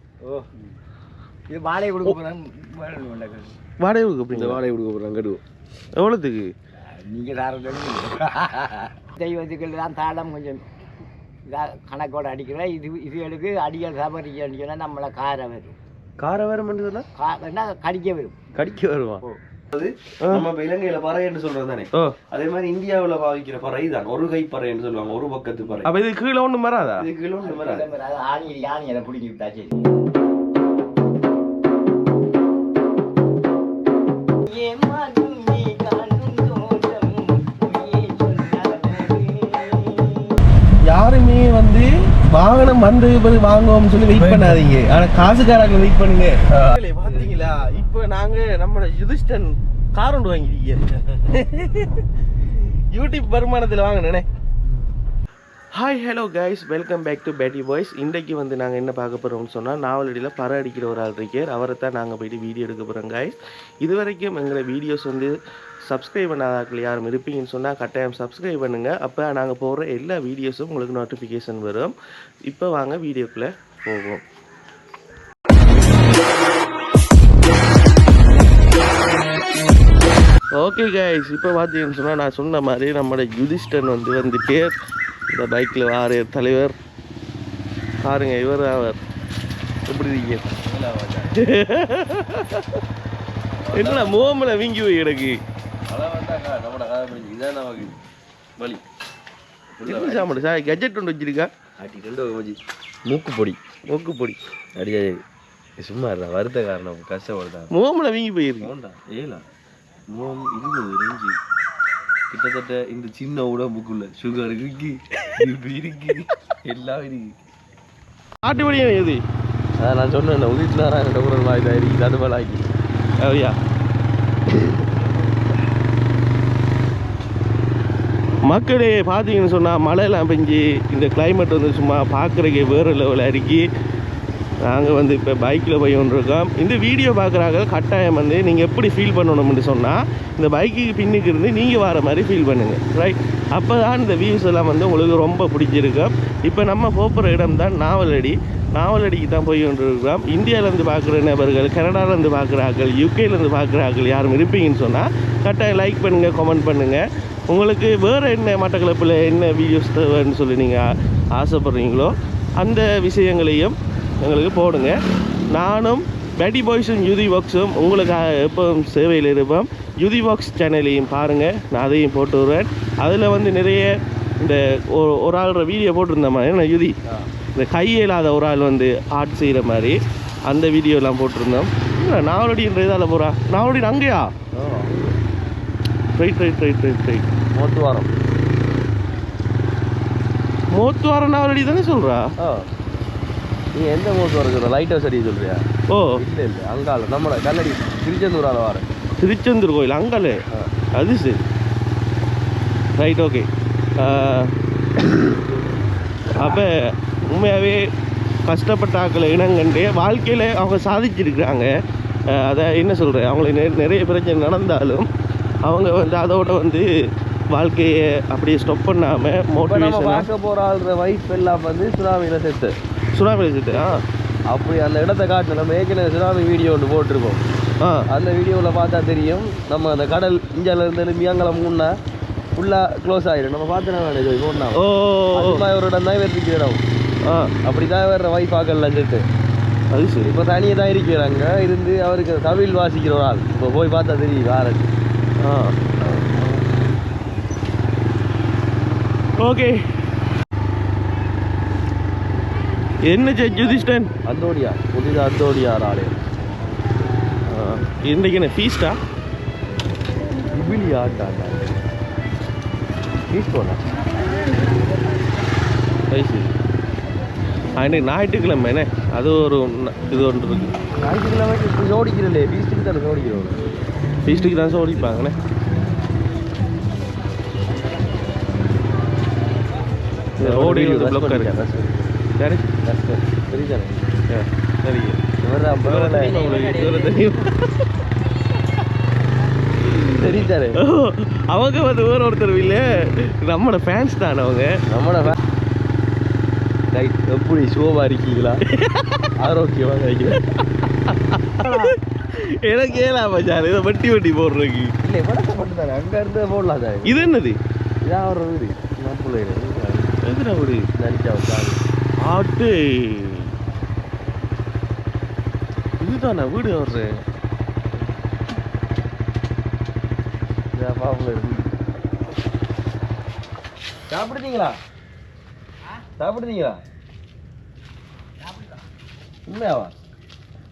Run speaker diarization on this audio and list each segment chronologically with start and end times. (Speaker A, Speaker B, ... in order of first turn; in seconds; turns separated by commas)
Speaker A: 0.2-0.5, Speaker A: 1.5-3.5, Speaker B: 3.8-4.6, Speaker C: 4.3-5.4, Speaker B: 6.0-6.5, Speaker A: 6.9-10.6, Speaker A: 11.5-15.8, Speaker C: 16.2-17.1, Speaker A: 17.1-18.4, Speaker C: 18.5-25.9, Speaker B: 25.8-27.1, Speaker C: 26.9-27.9, Speaker A: 27.4-29.8, Speaker A: 34.5-40.4, Speaker B: 40.9-54.2, Speaker C: 44.1-44.7, Speaker C: 46.5-47.4, Speaker B: 55.8-63.3, Speaker B: 63.8-65.3, Speaker B: 65.9-71.9, Speaker B: 72.5-74.2, Speaker B: 80.6-84.8, Speaker B: 85.3-86.8, Speaker B: 88.0-89.0, Speaker C: 89.9-91.4, Speaker B: 91.3-92.8, Speaker C: 93.6-94.5, Speaker B: 93.7-95.4, Speaker C: 95.9-98.0, Speaker C: 98.6-98.8, Speaker C: 99.7-100.5, Speaker B: 99.8-101.5, Speaker C: 101.8-103.6, Speaker B: 103.9-104.4, Speaker C: 104.8-105.2, Speaker C: 105.8-107.7, Speaker B: 107.7-108.7, Speaker C: 108.6-109.5, Speaker C: 110.1-111.4, Speaker C: 112.3-117.3, Speaker B: 118.4-119.2, Speaker C: 119.8-122.7, Speaker B: 123.2-123.6, Speaker B: 128.4-133.7, Speaker B: 134.6-160.8, Speaker B: 161.3-165.0, Speaker B: 165.5-177.0, Speaker B: 177.5-184.3, Speaker C: 184.5-185.2, Speaker B: 186.2-187.3, Speaker C: 187.5-188.1, Speaker B: 190.7-192.3, Speaker C: 192.4-192.7, Speaker C: 193.7-198.9, Speaker B: 195.9-196.2, Speaker B: 199.2-200.4, Speaker B: 200.9-201.4, Speaker B: 203.0-204.5, Speaker B: 206.3-207.9, Speaker B: 208.4-211.7, Speaker B: 212.3-215.1, Speaker B: 215.6-216.9, Speaker B: 217.5-220.3, Speaker C: 219.6-222.8, Speaker B: 223.1-224.0, Speaker C: 223.7-227.4, Speaker B: 227.8-228.1, Speaker C: 228.1-232.0, Speaker C: 232.6-236.8, Speaker B: 234.7-235.7, Speaker B: 237.2-237.5, Speaker C: 237.6-239.3, Speaker B: 239.9-240.3, Speaker C: 240.2-244.9, Speaker B: 245.4-246.6, Speaker B: 249.4-249.8, Speaker B: 253.0-254.1, Speaker C: 254.2-256.2, Speaker B: 257.5-259.0, Speaker C: 260.5-261.8, Speaker C: 263.3-263.8, Speaker B: 266.1-266.5, Speaker B: 267.8-270.7, Speaker C: 271.0-273.7, Speaker B: 274.2-275.4, Speaker C: 280.4-282.2, Speaker B: 280.4-281.6, Speaker B: 282.4-282.7, Speaker C: 282.8-284.2, Speaker B: 284.3-285.2, Speaker C: 285.4-287.1, Speaker B: 285.8-287.8, Speaker C: 290.0-290.8, Speaker B: 290.8-294.7, Speaker C: 294.9-295.4, Speaker C: 296.9-298.6, Speaker B: 298.7-299.3, Speaker C: 299.4-300.4, Speaker B: 301.1-304.9, Speaker C: 301.6-301.9, Speaker C: 305.0-307.3, Speaker B: 307.1-307.6, Speaker C: 308.0-310.2, Speaker B: 310.2-310.9, Speaker C: 310.9-311.8, Speaker B: 312.2-313.5, Speaker B: 316.0-317.2, Speaker C: 320.7-321.7, Speaker C: 324.1-324.8, Speaker C: 326.2-326.8, Speaker A: 328.4-328.8, Speaker C: 329.4-330.0